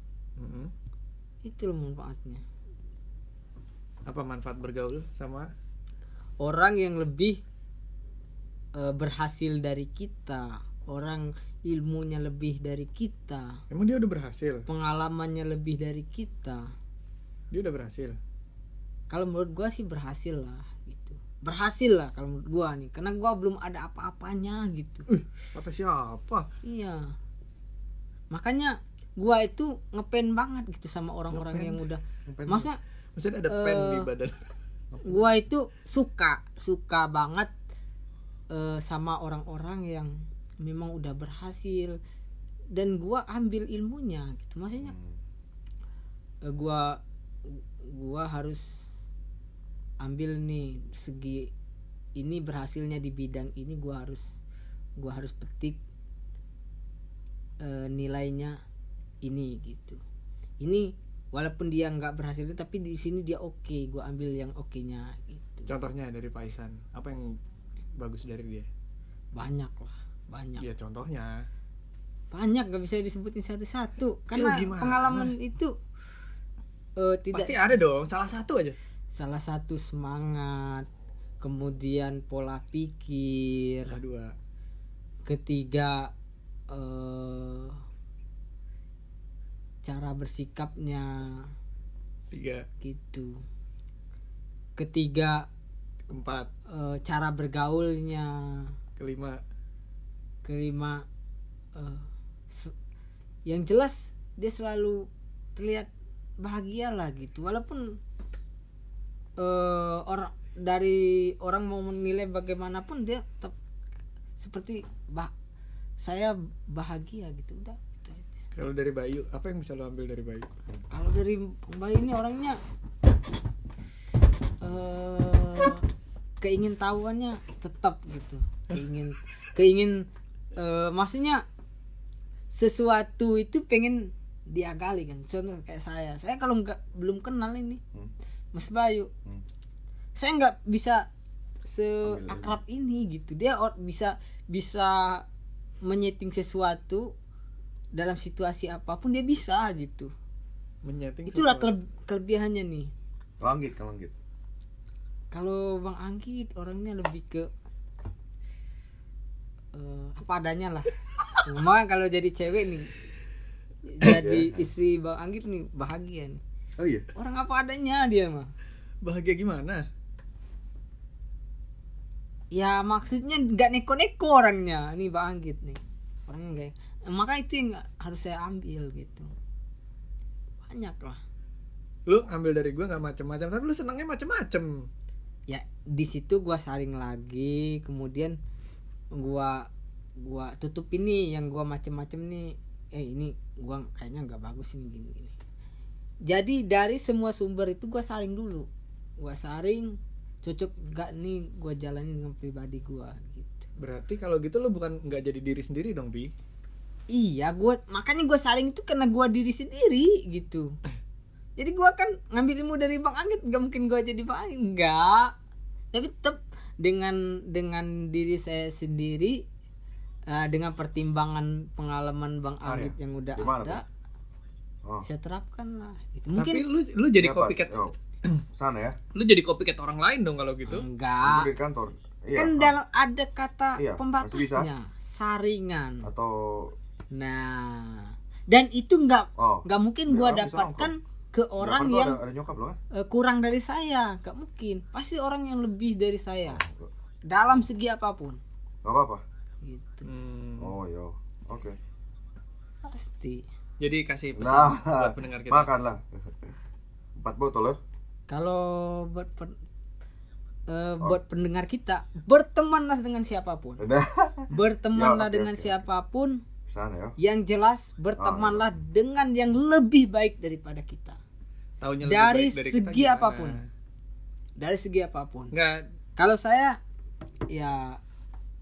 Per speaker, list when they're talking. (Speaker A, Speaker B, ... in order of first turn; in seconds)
Speaker A: 0.4-0.7, 4.1-5.5, 13.7-14.7, 17.5-18.2, 25.1-26.5, 31.3-31.9, 33.2-34.4, 65.7-67.4, 68.0-68.7, 70.6-71.5, 74.3-75.3, 77.3-78.8, 83.9-84.3, 92.3-92.7, 96.1-96.5, 99.0-99.4, 118.5-120.5, 150.8-151.7, 169.0-169.8, 182.1-184.9, 203.8-206.3, 226.3-228.4, 229.1-230.9, 250.1-250.8, 253.8-255.7, 271.8-273.6, 275.5-275.9
Speaker B: 1.4-2.5, 6.4-7.4, 8.8-13.6, 14.7-16.7, 19.1-25.1, 26.6-27.1, 28.3-32.8, 33.5-34.1, 35.0-37.5, 38.5-42.0, 42.7-45.0, 46.5-48.9, 50.0-51.5, 52.2-54.4, 55.0-55.8, 57.6-58.6, 59.2-60.0, 60.6-65.7, 69.3-70.7, 72.3-75.8, 77.0-77.6, 79.1-80.9, 81.4-84.0, 85.3-86.1, 86.7-87.8, 89.8-91.5, 92.8-93.4, 94.8-95.5, 96.7-98.8, 100.4-101.0, 101.8-102.7, 103.5-108.0, 109.4-113.6, 114.4-115.3, 116.0-118.4, 120.9-122.6, 124.6-125.9, 126.4-131.4, 132.5-137.8, 138.5-139.1, 140.2-141.1, 141.7-145.2, 145.8-147.1, 147.9-150.1, 151.3-152.9, 155.3-157.5, 159.7-162.9, 163.8-166.4, 167.2-168.5, 172.5-179.3, 180.6-181.2, 185.5-188.4, 189.2-189.7, 190.2-195.3, 196.3-198.7, 199.2-203.7, 207.1-210.8, 211.6-215.3, 215.9-219.4, 220.3-223.8, 225.0-226.7, 230.7-231.5, 232.3-236.1, 237.1-242.2, 242.9-246.6, 247.3-248.4, 249.6-250.1, 252.9-253.4, 258.3-259.6, 260.7-263.9, 264.5-266.4, 267.2-271.2, 272.0-273.6, 274.6-275.5, 276.2-276.8, 277.5-278.0
Speaker C: 32.3-32.7, 35.0-35.2, 44.9-45.1, 142.0-142.6, 153.4-154.2, 164.0-164.5, 166.8-167.1, 222.6-223.8, 227.2-227.9, 228.6-229.0, 231.2-232.8, 233.8-234.7, 236.0-236.8, 239.4-240.9, 241.6-242.8, 246.5-246.9, 248.8-249.2, 250.6-251.8, 254.3-256.4, 257.2-257.8, 263.8-265.8, 266.7-267.1, 268.2-268.6